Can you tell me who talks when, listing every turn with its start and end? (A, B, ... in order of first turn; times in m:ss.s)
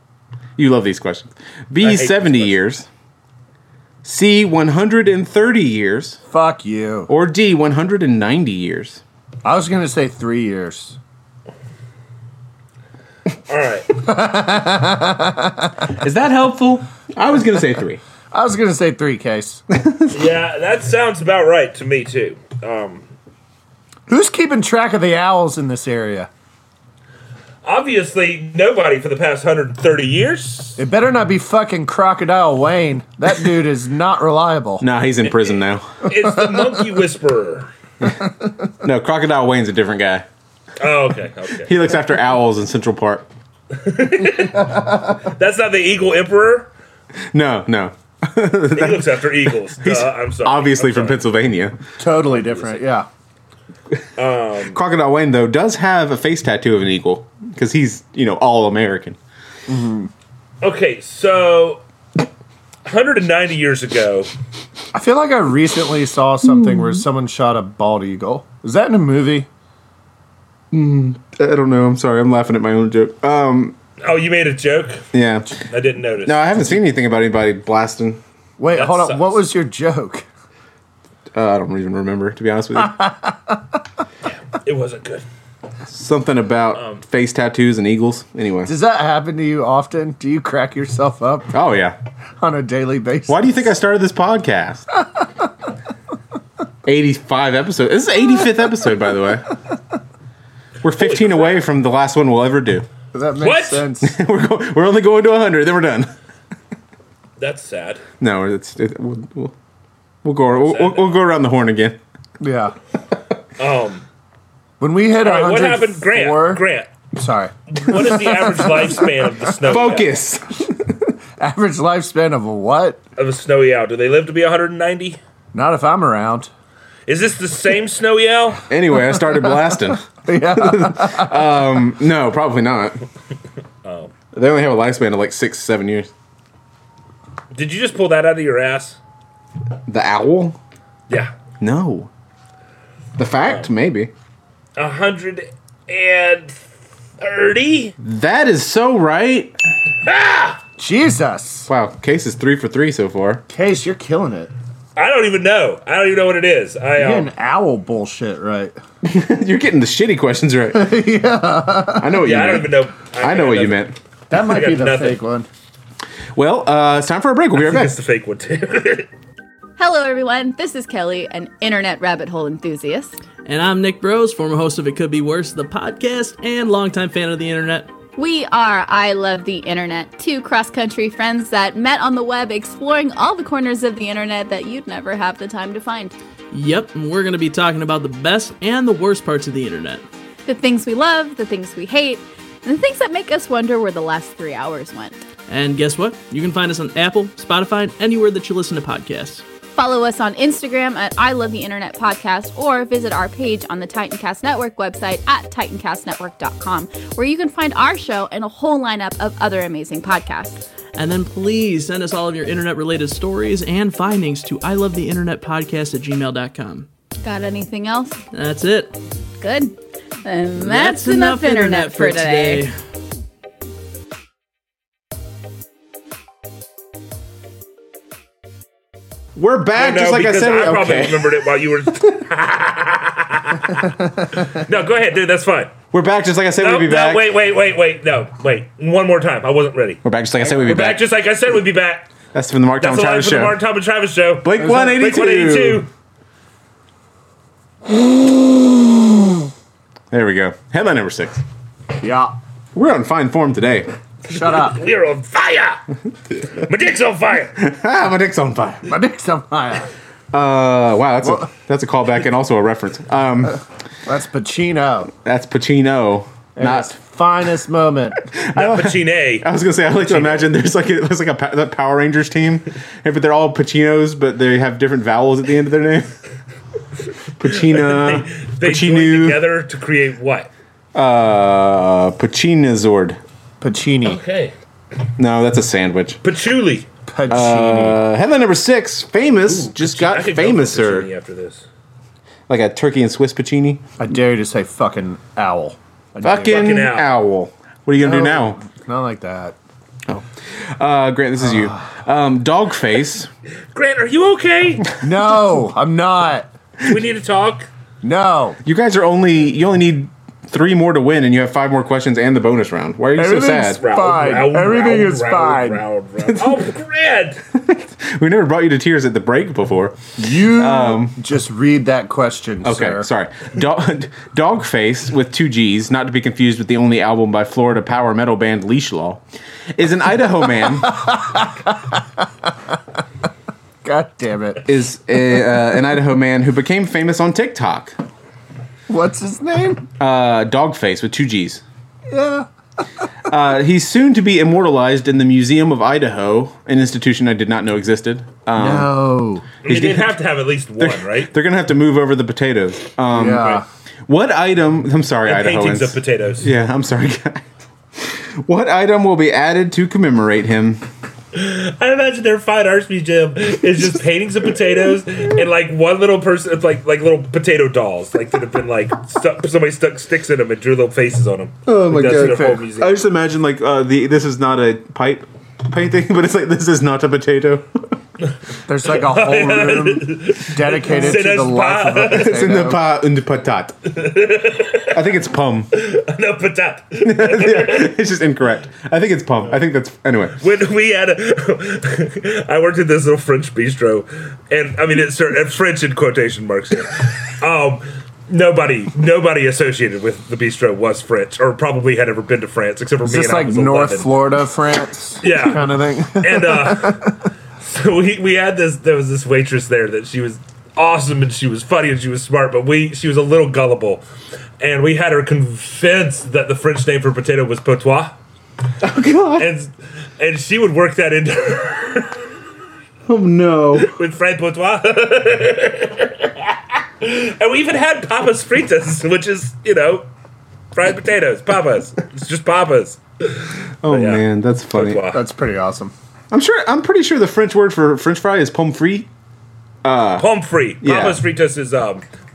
0:00.6-0:02.9 A
0:01.8-0:02.6 B
0:04.0-0:06.2 A
0:06.3-0:07.1 C
0:07.1-0:09.0 A
0:09.4-0:11.0 C
0:13.5-0:13.9 B
0:14.0-0:15.8 C
0:16.0-0:18.0 A
0:18.3-0:19.6 C
0:19.8-0:20.1 A
0:20.1-0:23.1 B
0:24.1-0:26.3 C
0:27.6-0:30.8 B
0:30.8-0:34.8 C
0:34.8-0:35.9 A
0:36.0-0:37.7 B
0:38.0-0:38.3 A
0:38.8-0:40.2 A
0:40.8-0:41.7 B
0:41.7-0:43.3 A
0:43.7-0:46.7 B
0:44.6-0:45.0 C
0:47.3-0:51.8 A
0:48.7-0:51.2 B
0:52.0-0:53.1 C
0:52.3-0:52.8 B
0:54.2-0:54.8 B
0:54.7-0:59.2 A
0:59.7-1:00.1 C
1:00.6-1:01.8 B
1:02.8-1:04.3 B
1:04.9-1:09.5 C
1:10.7-1:13.8 A
1:14.0-1:16.6 B
1:15.1-1:15.6 A
1:16.2-1:18.2 A
1:18.6-1:20.2 C
1:18.7-1:19.4 B
1:21.3-1:23.0 A
1:22.8-1:23.8 C
1:24.3-1:25.2 B
1:25.9-1:28.7 A
1:26.8-1:27.0 B
1:28.6-1:31.5 C
1:31.5-1:32.0 A
1:32.4-1:33.6 C
1:33.3-1:34.9 A
1:36.8-1:39.5 A
1:40.8-1:42.8 A
1:41.0-1:41.6 B
1:43.1-1:44.2 C
1:43.4-1:43.9 B
1:44.0-1:46.1 A
1:47.4-1:48.0 B
1:48.2-1:49.5 A
1:50.2-1:52.0 A
1:50.6-1:51.2 B
1:52.4-1:52.8 C
1:53.6-1:54.0 B
1:54.8-1:59.5 C
1:55.2-1:56.9 B
1:57.7-2:00.1 B
1:59.7-2:00.7 A
2:01.4-2:03.0 C
2:03.2-2:05.2 B
2:05.5-2:06.5 C
2:07.1-2:08.6 B
2:08.7-2:13.0 A
2:09.1-2:11.6 C
2:13.8-2:14.1 B
2:14.3-2:16.1 A
2:17.5-2:19.0 B
2:19.9-2:20.6 A
2:21.6-2:22.1 A
2:23.2-2:24.1 A
2:24.8-2:26.6 B
2:27.2-2:28.0 B
2:28.0-2:29.6 A
2:30.0-2:30.6 B
2:30.8-2:31.7 C
2:31.7-2:33.4 A
2:33.5-2:34.5 C
2:35.0-2:37.3 B
2:37.0-2:38.8 C
2:39.0-2:41.0 A
2:40.7-2:42.2 C
2:42.0-2:44.0 A
2:42.2-2:45.2 B
2:44.3-2:45.5 C
2:46.4-2:48.0 A
2:47.5-2:49.1 B
2:49.8-2:53.2 D
2:53.4-2:57.9 E
2:58.2-3:06.2 D
3:06.5-3:10.0 E
3:10.5-3:15.2 D
3:15.5-3:19.4 E
3:19.8-3:30.6 D
3:31.0-3:36.9 E
3:37.2-3:38.2 D
3:38.3-3:39.0 E
3:39.4-3:42.7 D
3:40.6-3:42.8 E
3:49.4-3:51.4 A
3:49.8-3:55.8 B
3:55.9-3:57.2 A
3:56.6-4:02.1 B
4:00.0-4:01.0 A
4:02.3-4:03.6 A
4:02.8-4:05.9 B
4:04.4-4:05.9 A
4:04.6-4:05.0 C
4:08.0-4:08.9 C
4:10.1-4:11.4 A
4:12.0-4:12.4 C
4:12.8-4:13.9 A
4:14.3-4:14.8 C
4:14.4-4:15.8 B
4:16.4-4:17.6 B
4:17.6-4:18.9 A
4:18.9-4:19.9 C
4:20.3-4:23.6 A
4:21.2-4:21.5 C
4:24.1-4:25.1 C
4:25.2-4:27.0 A
4:26.6-4:28.2 C
4:28.3-4:36.1 A
4:28.6-4:30.5 B
4:37.4-4:39.4 A
4:37.5-4:40.5 B
4:41.0-4:43.2 A
4:43.6-4:44.2 C
4:44.0-4:44.5 B
4:45.2-4:46.2 A
4:46.2-4:46.9 B
4:47.1-4:48.0 C
4:47.3-4:51.1 A
4:49.5-4:51.6 B
4:52.5-4:53.8 A
4:54.0-4:56.8 C
4:56.2-4:58.6 A
4:56.4-4:57.1 B
4:58.0-4:59.6 C
5:00.8-5:03.3 A
5:03.7-5:04.9 B
5:05.0-5:06.5 C
5:06.8-5:07.7 B
5:08.0-5:08.6 C
5:08.6-5:13.8 A
5:13.2-5:15.8 C
5:13.8-5:17.4 B
5:17.6-5:21.2 A
5:20.2-5:23.1 C
5:22.6-5:29.2 A
5:29.8-5:31.0 A
5:30.6-5:32.8 C
5:33.8-5:34.6 C
5:34.7-5:38.0 A
5:38.9-5:39.9 C
5:40.0-5:41.6 A
5:42.1-5:42.5 C
5:43.3-5:48.9 A
5:48.6-5:49.5 C
5:49.6-5:50.2 A
5:49.6-5:51.3 B
5:50.8-5:57.4 A
5:53.1-5:53.6 C
5:55.3-5:56.5 B
5:58.0-6:00.8 A
6:01.3-6:13.0 B
6:11.7-6:17.9 A
6:12.1-6:12.6 C
6:18.7-6:22.8 C
6:18.9-6:22.5 B
6:22.1-6:23.7 A
6:23.9-6:25.0 B
6:24.9-6:25.7 A
6:25.7-6:28.0 B
6:27.0-6:30.4 A
6:30.4-6:44.1 B
6:43.0-6:47.2 C
6:45.2-6:54.0 B
6:54.6-6:58.2 B
6:58.8-6:59.5 A
6:59.4-7:02.3 B
7:03.1-7:03.9 A
7:03.8-7:10.1 B
7:10.7-7:15.2 B
7:13.8-7:15.0 A
7:15.1-7:15.9 C
7:16.3-7:19.1 A
7:19.8-7:20.3 A
7:20.2-7:22.0 B
7:20.8-7:21.2 A